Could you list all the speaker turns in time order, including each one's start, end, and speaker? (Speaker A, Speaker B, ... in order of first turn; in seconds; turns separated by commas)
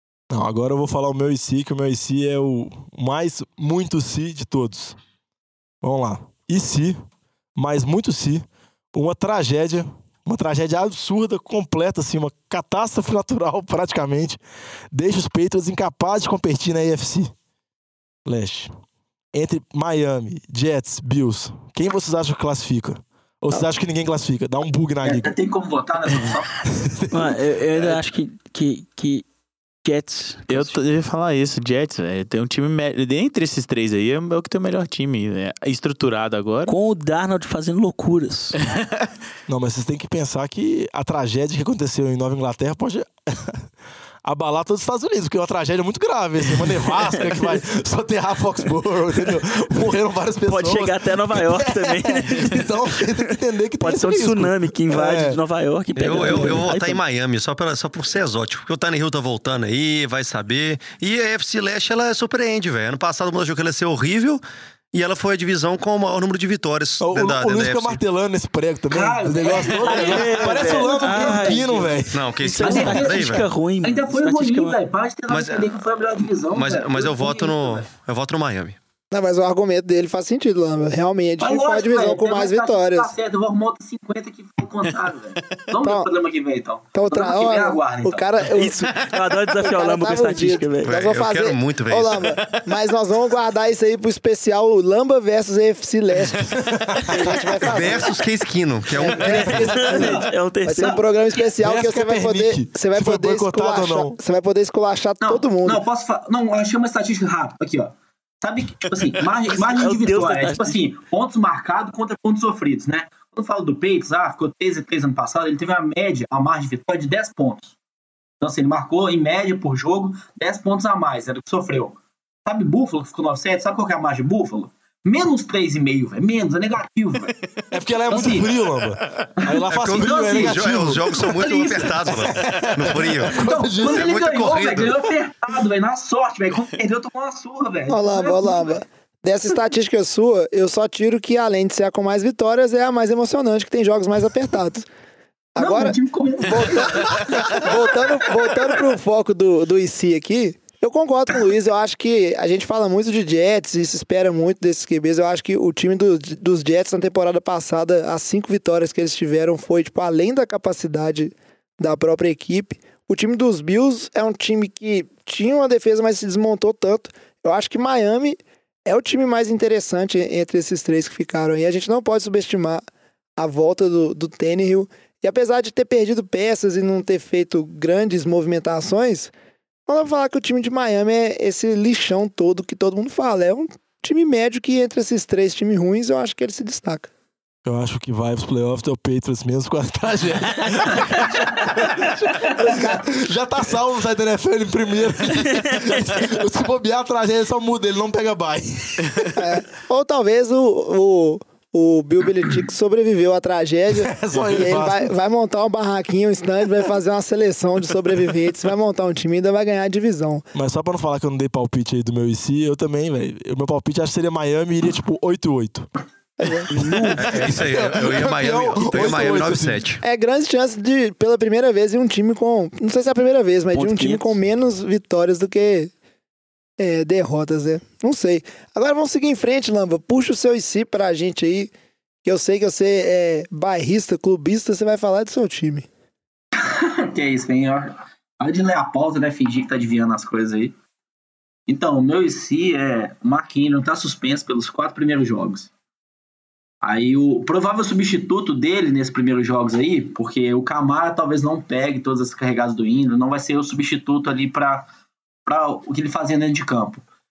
Speaker A: 0.3-5.0, Speaker A: 5.8-7.0, Speaker A: 7.6-14.4, Speaker A: 14.9-17.3, Speaker A: 18.2-18.7, Speaker A: 19.3-25.4, Speaker B: 25.1-26.6, Speaker A: 26.7-27.4, Speaker C: 27.1-29.2, Speaker C: 29.9-30.8, Speaker D: 30.5-36.7, Speaker C: 36.7-38.6, Speaker A: 39.5-43.7, Speaker A: 44.2-55.4, Speaker C: 50.5-57.0, Speaker E: 56.0-64.4, Speaker A: 56.2-56.6, Speaker E: 64.9-68.0, Speaker A: 67.0-73.0, Speaker B: 68.9-71.9, Speaker C: 69.9-71.9, Speaker E: 72.1-73.5, Speaker C: 72.4-74.8, Speaker B: 72.6-77.9, Speaker E: 75.3-75.7, Speaker E: 76.5-78.8, Speaker F: 79.1-83.1, Speaker B: 81.4-88.3, Speaker F: 85.8-86.1, Speaker F: 86.9-89.0, Speaker C: 88.5-90.9, Speaker F: 89.6-96.5, Speaker E: 90.8-92.3, Speaker A: 96.6-97.2, Speaker F: 97.1-98.1, Speaker E: 97.6-99.7, Speaker F: 99.0-105.8, Speaker B: 99.2-100.3, Speaker C: 99.3-101.0, Speaker A: 101.6-104.2, Speaker B: 105.2-117.7, Speaker C: 109.5-110.8, Speaker B: 118.4-127.4, Speaker A: 127.7-134.1, Speaker B: 128.1-128.5, Speaker B: 129.4-132.1, Speaker E: 129.7-134.9, Speaker B: 133.2-138.7, Speaker F: 137.9-144.9, Speaker F: 145.6-172.8, Speaker B: 145.6-148.2, Speaker F: 173.4-179.3, Speaker F: 179.9-187.1, Speaker A: 187.6-199.3, Speaker F: 192.6-193.1, Speaker F: 199.4-210.4, Speaker A: 204.0-205.1, Speaker A: 210.5-215.9, Speaker F: 216.4-216.7, Speaker C: 216.7-217.7, Speaker A: 216.8-219.8, Speaker E: 217.1-220.0, Speaker F: 220.0-225.9, Speaker C: 223.7-224.3, Speaker F: 226.8-231.7, Speaker F: 232.2-235.9, Speaker B: 236.6-240.7, Speaker B: 241.7-245.7, Speaker B: 246.8-254.9, Speaker B: 255.4-257.0